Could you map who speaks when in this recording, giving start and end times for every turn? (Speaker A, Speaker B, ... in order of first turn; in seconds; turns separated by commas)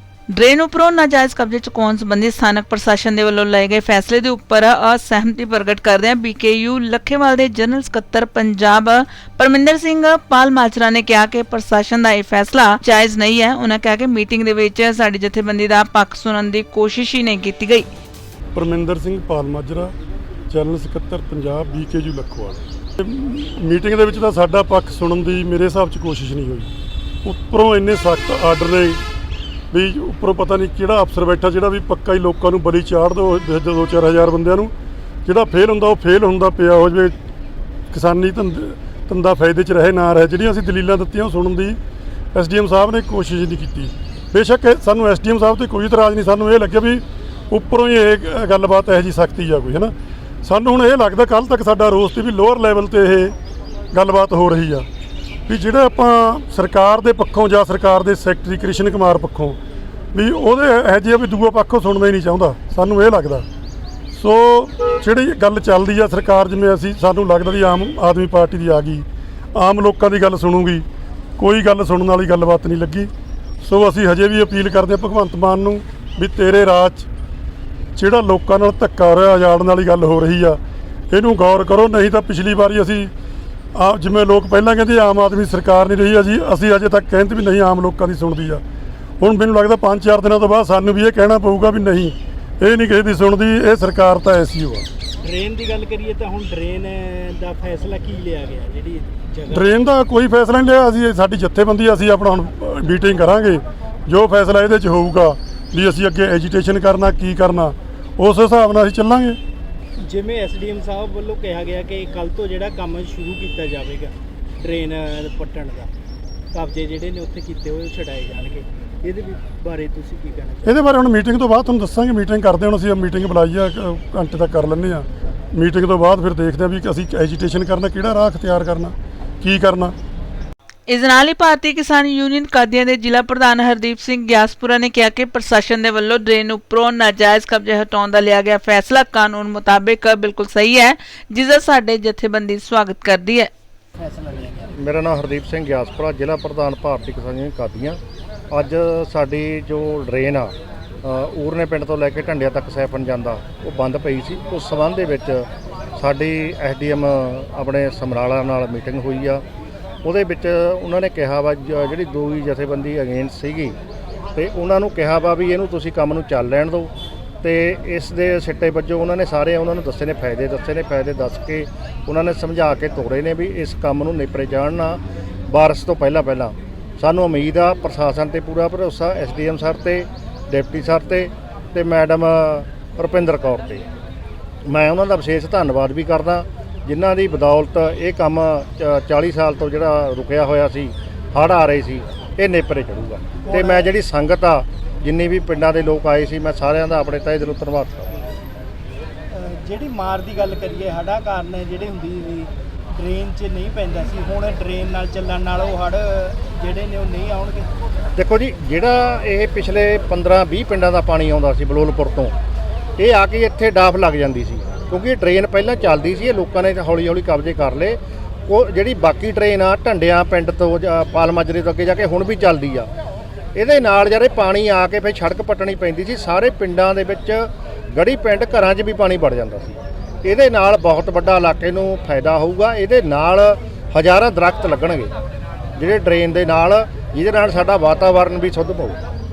Speaker A: 0.3-17.9, Speaker B: 18.5-19.9, Speaker B: 20.5-26.7, Speaker B: 27.2-29.0, Speaker B: 29.7-34.7, Speaker B: 35.2-37.1, Speaker B: 37.9-41.8, Speaker B: 42.3-49.9, Speaker B: 50.4-53.3, Speaker B: 53.9-54.9, Speaker B: 55.5-59.6, Speaker B: 60.1-63.4, Speaker B: 64.1-70.8, Speaker B: 71.4-73.1, Speaker B: 73.6-77.1, Speaker B: 78.0-80.6, Speaker B: 81.1-83.1, Speaker B: 83.8-88.6, Speaker B: 89.2-94.9, Speaker C: 95.2-99.7, Speaker B: 99.5-109.4, Speaker C: 110.0-115.9, Speaker C: 116.5-120.8, Speaker B: 120.7-129.9, Speaker A: 130.9-143.5, Speaker C: 144.0-144.7, Speaker D: 144.8-148.0, Speaker D: 148.5-150.5, Speaker D: 151.0-159.4, Speaker D: 160.0-163.8, Speaker D: 164.4-183.9, Speaker D: 184.7-198.1, Speaker C: 193.4-193.9, Speaker C: 199.3-207.7, Speaker D: 208.2-212.3, Speaker D: 213.0-222.9, Speaker D: 223.6-235.1, Speaker D: 235.8-239.0